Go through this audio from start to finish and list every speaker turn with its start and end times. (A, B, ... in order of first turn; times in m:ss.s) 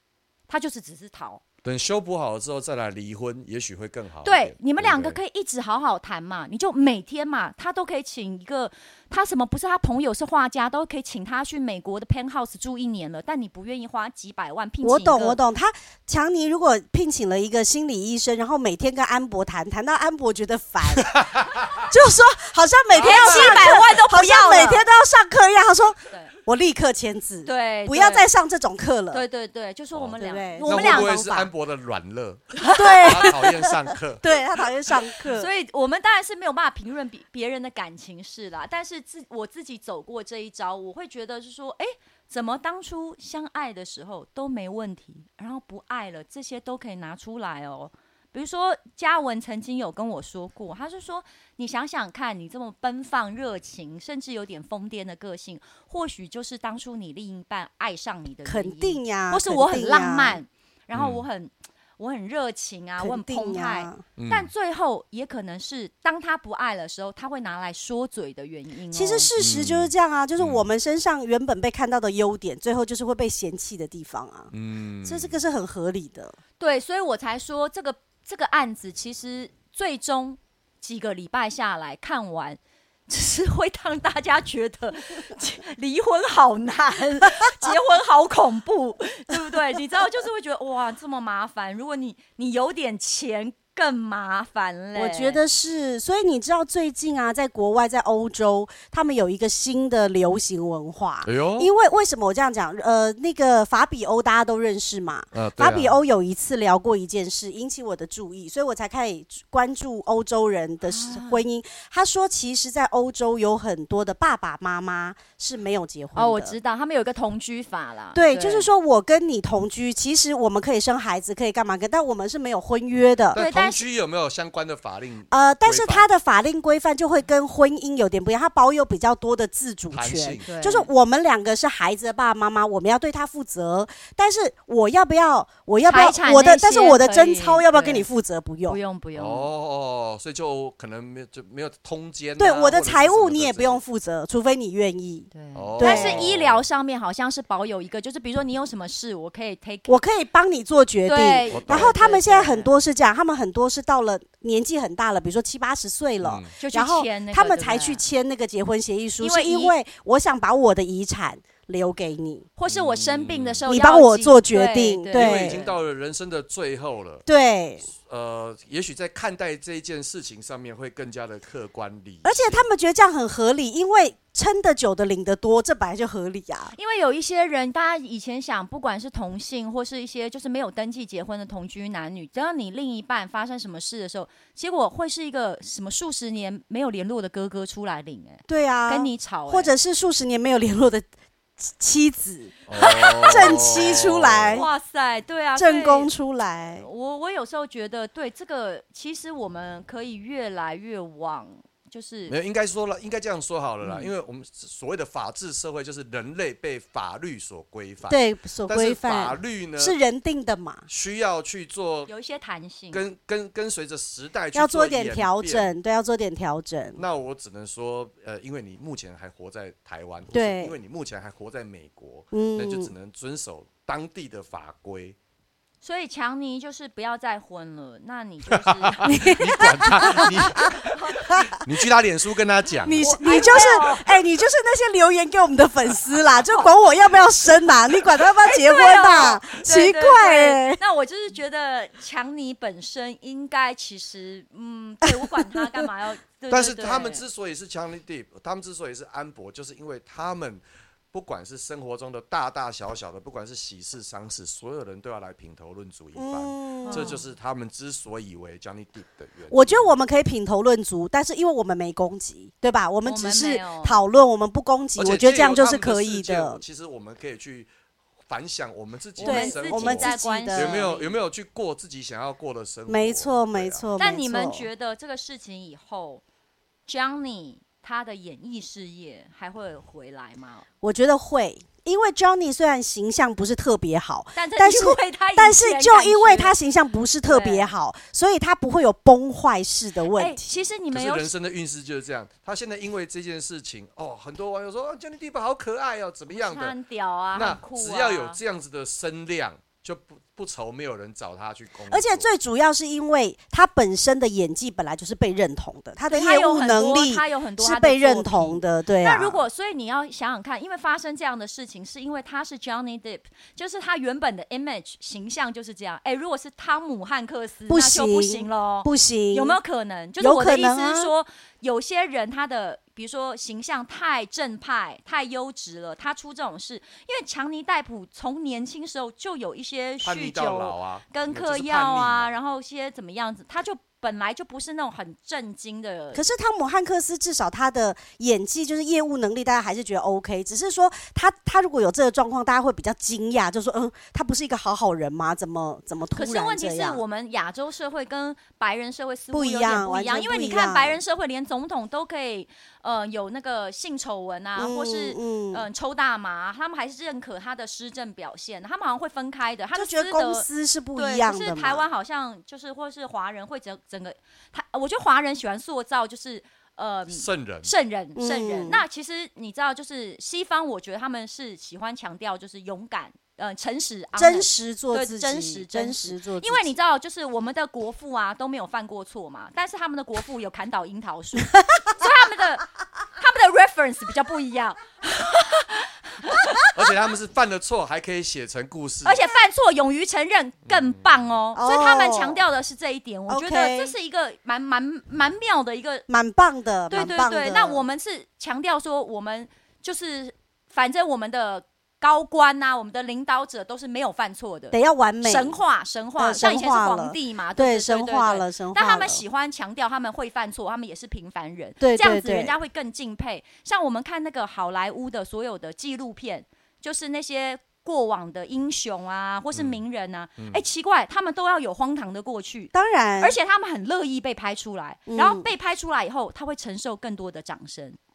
0:00.5-0:01.4 A
0:01.6-0:05.2 B
0:04.2-0:15.4 A
0:14.8-0:21.3 C
0:21.1-0:21.8 B
0:21.8-0:29.2 C
0:22.9-0:23.8 B
0:23.0-0:24.8 A
0:27.4-0:28.3 A
0:29.1-0:31.3 A
0:30.2-0:31.5 C
0:30.7-0:34.2 B
0:32.6-0:33.3 A
0:32.8-0:35.5 C
0:35.3-1:09.3 A
0:58.4-1:00.4 C
1:00.9-1:01.2 B
1:03.0-1:04.0 C
1:04.2-1:04.5 B
1:08.9-1:14.5 C
1:09.4-1:10.7 B
1:14.5-1:15.4 B
1:15.0-1:16.4 C
1:16.6-1:35.4 A
1:34.9-1:56.5 C
1:41.2-1:41.7 B
1:45.3-1:46.0 B
1:50.9-1:51.4 A
1:56.1-1:58.7 A
1:58.1-2:03.4 C
2:03.3-2:06.1 B
2:03.3-2:03.8 A
2:05.3-2:18.8 C
2:09.9-2:10.5 B
2:10.4-2:10.9 A
2:15.8-2:18.1 A
2:18.7-2:19.5 A
2:19.1-2:23.8 B
2:22.4-2:26.3 C
2:25.3-2:30.0 A
2:25.5-2:26.6 B
2:29.9-2:42.5 C
2:31.0-2:32.7 A
2:31.5-2:31.9 B
2:36.2-2:36.5 B
2:36.6-2:38.0 A
2:39.2-2:39.7 A
2:42.6-2:45.7 A
2:42.7-2:43.6 B
2:43.7-2:45.6 C
2:45.1-2:47.2 B
2:47.3-2:47.8 C
2:48.0-2:52.6 B
2:52.2-2:56.7 C
2:56.7-3:09.7 A
3:08.5-3:11.0 C
3:11.6-3:14.7 C
3:12.7-3:14.6 B
3:12.8-3:13.6 A
3:14.5-3:16.1 A
3:15.6-3:16.8 C
3:16.8-3:22.4 A
3:22.3-3:30.0 B
3:23.8-3:24.1 A
3:28.1-3:30.9 C
3:30.9-3:32.1 B
3:32.1-3:33.0 A
3:32.9-3:35.7 B
3:34.5-3:37.0 C
3:37.0-3:45.2 B
3:40.3-3:40.8 C
3:42.3-3:42.9 C
3:45.8-3:49.2 A
3:48.5-3:53.6 B
3:49.0-3:50.7 C
3:50.0-3:51.3 A
3:51.3-3:51.6 C
3:52.8-4:00.8 C
3:53.0-3:54.2 A
3:58.4-4:07.2 A
4:05.0-4:05.8 C
4:06.5-4:19.9 B
4:16.2-4:17.2 C
4:16.8-4:17.2 A
4:19.5-4:26.6 C
4:23.0-4:24.0 A
4:25.0-4:27.7 B
4:28.3-4:33.8 B
4:29.2-4:31.1 A
4:29.2-4:30.9 C
4:32.9-4:34.7 C
4:34.0-4:36.2 A
4:36.9-4:40.6 A
4:40.8-4:50.6 C
4:44.3-4:46.5 A
4:47.2-4:47.7 A
4:50.1-4:51.3 A
4:50.9-4:56.7 B
4:56.3-4:58.4 A
4:57.3-5:02.3 B
5:01.9-5:09.4 C
5:06.1-5:36.2 A
5:17.7-5:19.6 C
5:20.2-5:21.1 C
5:30.0-5:32.3 B
5:36.1-5:47.0 C
5:46.1-6:26.7 A
5:49.3-5:51.0 C
5:54.6-5:55.6 C
5:59.7-6:01.8 C
6:07.1-6:07.7 B
6:08.1-6:08.8 C
6:14.2-6:16.7 C
6:26.7-6:29.2 B
6:29.0-6:36.0 A
6:30.7-6:31.1 B
6:31.5-6:32.4 C
6:33.3-6:33.9 C
6:36.1-6:37.8 C
6:36.9-7:08.0 A
6:44.7-6:45.6 C
6:46.2-6:49.2 C
6:51.8-6:52.5 C
7:02.7-7:03.4 C
7:05.1-7:05.5 C